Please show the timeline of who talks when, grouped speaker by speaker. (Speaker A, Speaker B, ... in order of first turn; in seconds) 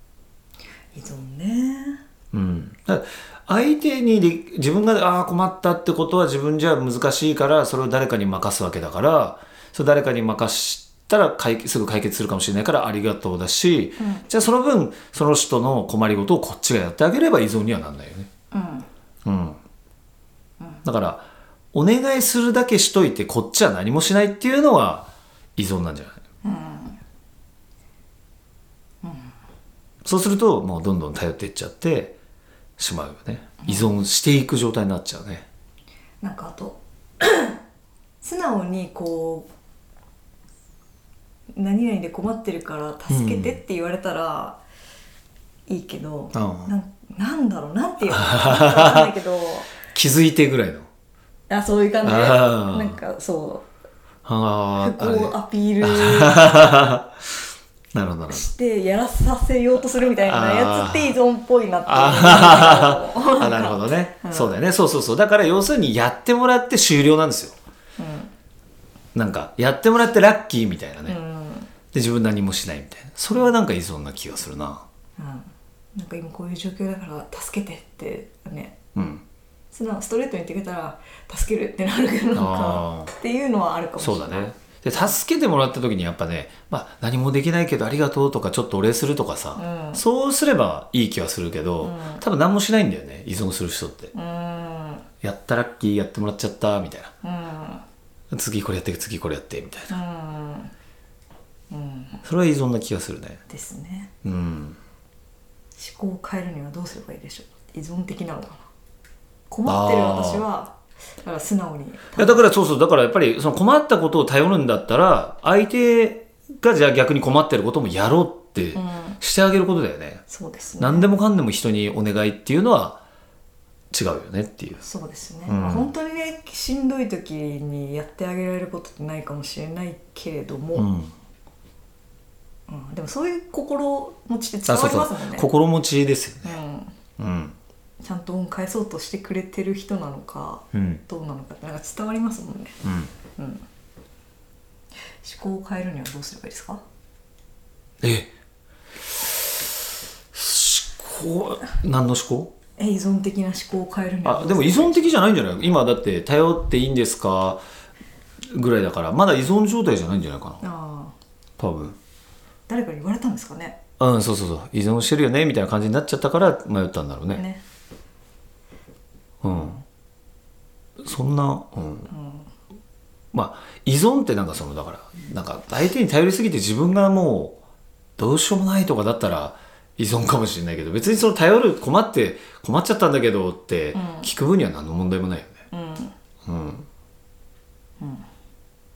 Speaker A: 0.9-2.0, 14.0-14.3, 18.5-18.9, 26.4-27.0, 29.0-29.3, 33.6-33.9, 36.2-37.6, 38.2-39.5, 41.5-44.6, 45.7-49.7, 51.5-53.7, 54.8-56.6, 58.3-64.6, 68.0-68.3, 71.0-71.7, 75.2-78.8, 79.7-85.1, 89.5-90.0, 91.8-92.2, 94.1-95.0, 97.2-97.8, 99.9-100.7, 101.7-102.2, 103.5-104.1, 105.8-108.7, 109.5-112.4, 118.7-119.2, 120.3-121.1, 124.8-130.9, 132.7-135.5, 136.4-136.9, 138.0-142.8, 143.4-143.6, 145.2-146.8, 152.8-155.2, 160.6-161.1, 162.7-163.8, 167.3-167.6, 172.1-172.5, 183.9-184.3, 185.7-186.1, 188.0-188.2
Speaker B: 2.3-18.3, 19.2-19.6, 20.8-26.2, 30.0-32.1, 32.8-35.5, 43.1-43.6, 46.3-46.7, 48.1-49.1, 49.9-50.9, 52.0-53.0, 54.2-57.2, 57.9-58.5, 60.2-61.2, 61.9-67.5, 69.1-71.2, 71.9-74.8, 78.9-79.2, 82.3-83.1, 84.0-94.1, 95.2-97.1, 98.3-100.0, 102.2-103.4, 104.2-104.8, 109.6-110.4, 112.2-120.2, 120.8-123.0, 123.9-124.8, 125.5-125.9, 130.7-131.1, 134.7-136.6, 137.2-137.6, 140.7-141.0, 142.8-143.1, 148.0-148.3, 150.3-152.5, 154.2-157.6, 158.5-160.6, 161.6-162.0, 164.0-167.4, 169.4-169.8, 171.0-172.1, 173.3-177.6, 178.2-185.5, 186.4-186.9